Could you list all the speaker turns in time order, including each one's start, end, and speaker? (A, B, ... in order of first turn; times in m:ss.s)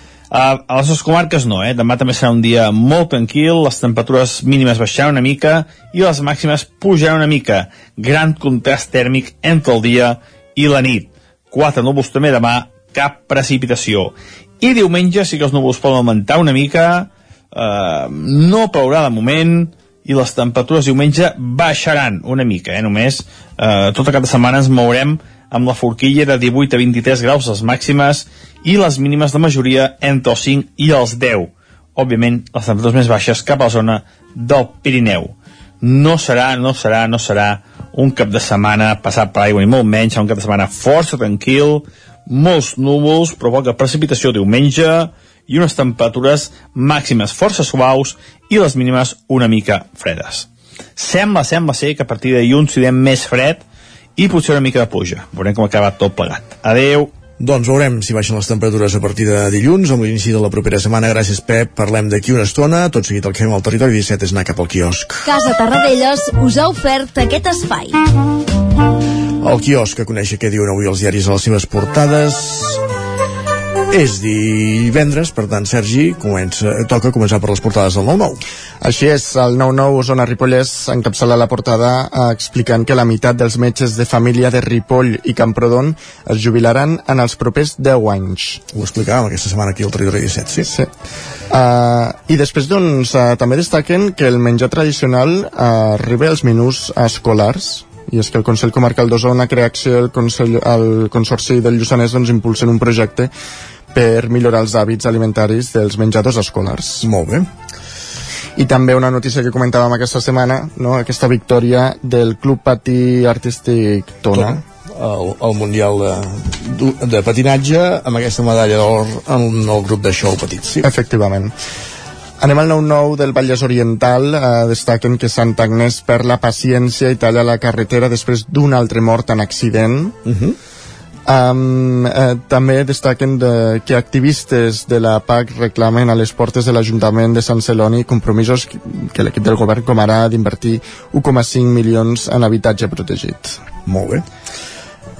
0:00.3-0:53.6 A
0:54.2-0:57.1 A
0:57.4-1:05.3 B
1:05.2-1:08.0 C
1:09.4-1:12.8 B
1:13.9-1:18.4 B
1:18.8-1:28.6 D
1:28.7-1:30.7 B
1:30.6-1:30.9 D
1:31.5-1:43.3 D
1:43.9-1:47.1 D
1:47.0-1:47.5 B
1:48.6-1:54.6 D
1:54.3-2:00.9 B
2:00.8-2:01.5 D
2:02.4-2:10.2 D
2:10.2-2:10.6 B
2:11.2-2:23.6 D
2:23.8-2:24.2 B